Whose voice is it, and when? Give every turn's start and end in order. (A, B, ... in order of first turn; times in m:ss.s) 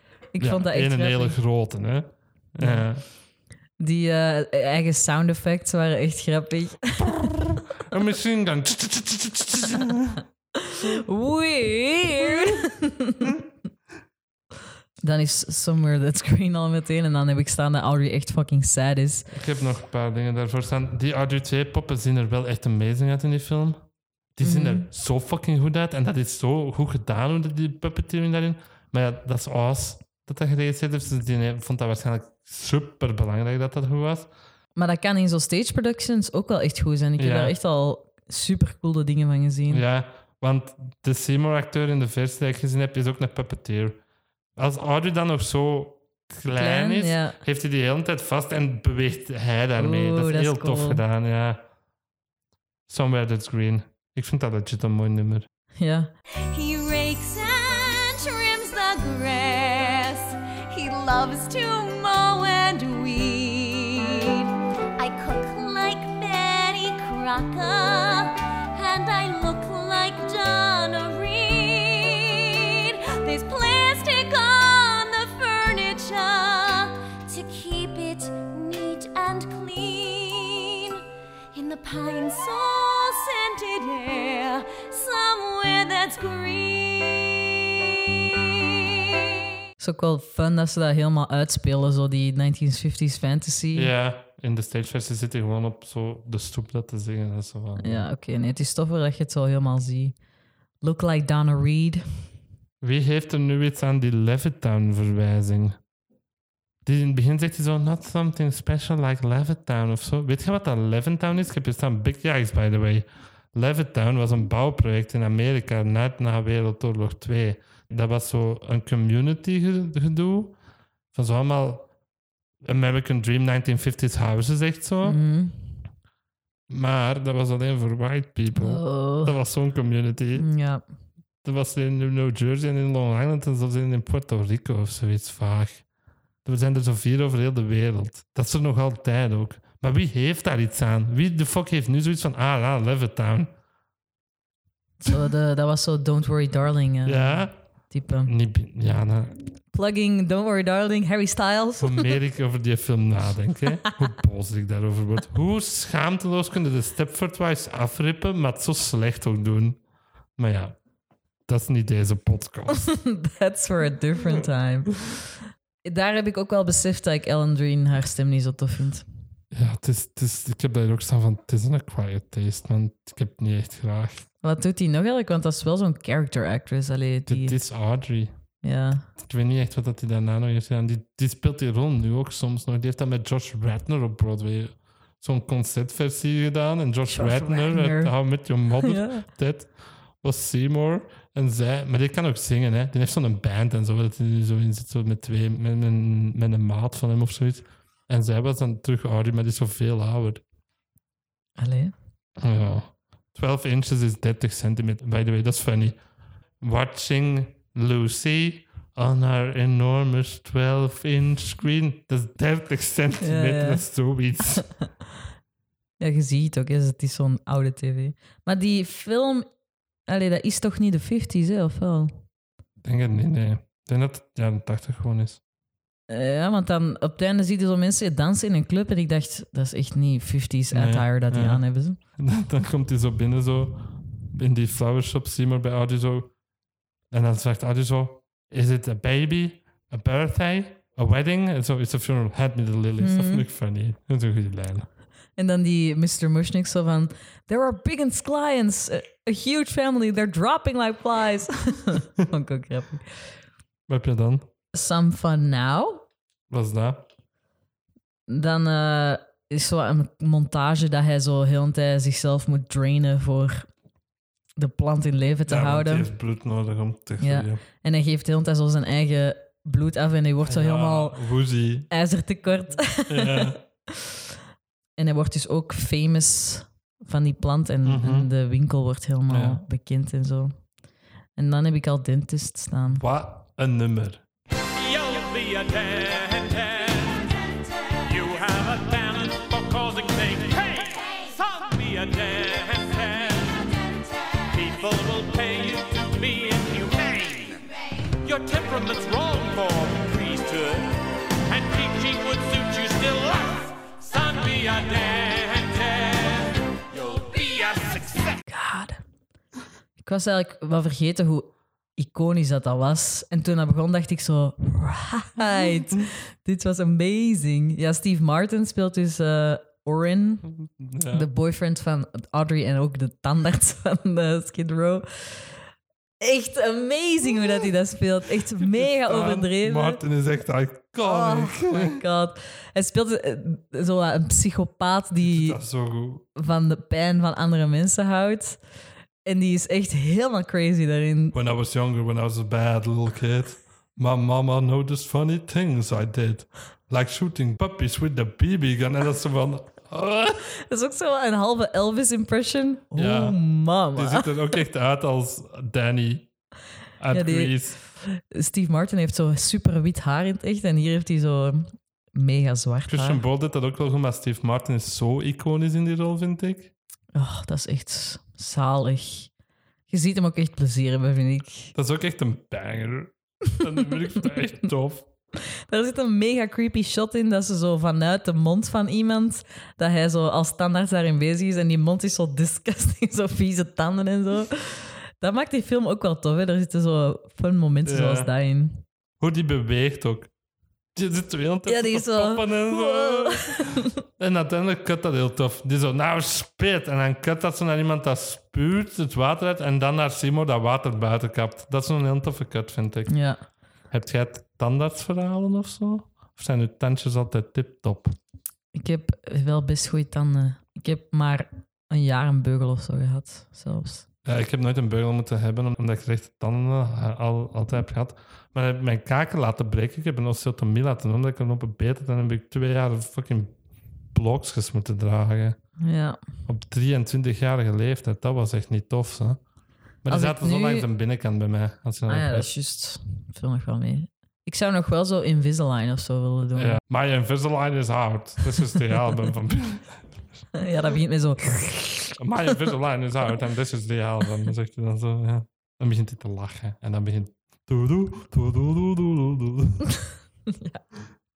0:00.3-0:01.4 A
0:00.4-0:03.0 B
0:02.6-0:02.8 A
0:03.8-0:07.3 A
0:07.0-0:10.2 B
0:10.6-0:13.3 A
0:12.2-0:12.6 B
0:15.0-0:19.3 A
0:19.3-0:34.3 B
0:24.4-0:24.9 A
0:34.8-0:39.8 A
0:37.2-0:37.6 B
0:39.7-0:44.0 B
0:44.6-0:51.6 B
0:46.6-0:47.4 A
0:49.8-0:51.0 A
0:52.9-0:55.5 B
0:55.8-0:56.1 A
0:56.5-1:04.5 C
1:05.0-1:21.0 C
1:21.5-1:28.5 C
1:29.8-1:33.9 A
1:33.8-1:38.1 B
1:37.8-1:40.2 A
1:40.8-1:42.0 A
1:42.8-1:45.8 B
1:46.8-2:00.6 B
2:01.1-2:01.9 B
2:02.6-2:05.2 B
2:05.0-2:05.6 A
2:06.7-2:10.5 B
2:08.6-2:09.4 A
2:10.4-2:10.8 A
2:11.4-2:15.8 B
2:16.4-2:23.5 B
2:25.0-2:28.3 A
2:27.0-2:27.6 B
2:28.2-2:29.4 B
2:29.7-2:32.1 A
2:31.8-2:39.8 B
2:40.4-2:40.8 B
2:41.5-2:42.9 B
2:42.7-2:45.3 A
2:45.8-2:49.0 A
2:49.5-2:54.3 B
2:54.4-2:57.6 A
2:57.3-2:58.3 B
2:58.6-2:59.0 A
2:59.2-3:20.4 B
3:07.1-3:08.2 A
3:08.8-3:09.2 A
3:21.6-3:21.9 A
3:22.4-3:26.0 B
3:26.6-3:34.7 B
3:33.2-3:33.8 A
3:36.0-3:39.5 A
3:40.1-3:42.2 A
3:42.8-3:45.4 B
3:46.1-3:52.0 A
3:50.7-3:51.6 B
3:52.2-3:56.3 B
3:57.1-4:04.9 B
4:03.0-4:03.5 A
4:05.4-4:13.3 A
4:13.9-4:14.5 B
4:14.7-4:16.0 A
4:16.5-4:17.0 B
4:18.3-4:23.7 A
4:24.6-4:26.1 A
4:25.5-4:27.6 B
4:27.2-4:31.2 A
4:30.4-4:31.9 B
4:31.9-4:34.1 A
4:33.1-4:33.6 B
4:35.0-4:40.6 A
4:37.8-4:38.3 B
4:39.3-4:39.6 B
4:41.4-4:43.0 A
4:42.9-4:44.2 B
4:44.8-4:47.2 D
4:48.1-4:53.5 D
4:54.5-4:57.5 D
4:58.3-5:00.8 D
5:01.5-5:06.4 D
5:07.1-5:08.2 D
5:08.5-5:09.0 A
5:10.0-5:20.5 A
5:20.4-5:21.3 B
5:21.1-5:25.6 A
5:26.2-5:30.0 A
5:28.6-5:32.0 B
5:31.0-5:35.6 A
5:35.2-5:36.2 B
5:36.4-5:38.6 A
5:39.2-5:41.4 A
5:41.3-5:50.4 B
5:50.7-5:54.3 A
5:53.0-5:53.4 B
5:53.9-5:56.3 B
5:57.0-5:57.8 B
5:57.1-6:03.2 A
6:02.9-6:06.7 B
6:07.2-6:09.3 A
6:09.9-6:11.7 A
6:11.8-6:15.1 B
6:15.7-6:28.8 A
6:27.8-6:28.3 B
6:29.2-6:30.3 B
6:31.0-6:43.2 B
6:31.7-6:33.9 A
6:43.1-6:43.4 A
6:43.9-6:48.2 B
6:48.7-6:54.0 A
6:54.2-7:03.5 B
7:04.1-7:05.6 B
7:05.8-7:06.2 A
7:06.5-7:09.4 B
7:10.0-7:12.5 B
7:10.1-7:10.9 A
7:12.1-7:16.8 A
7:16.6-7:20.0 B
7:20.6-7:22.1 A
7:22.2-7:29.8 B
7:30.5-7:30.8 A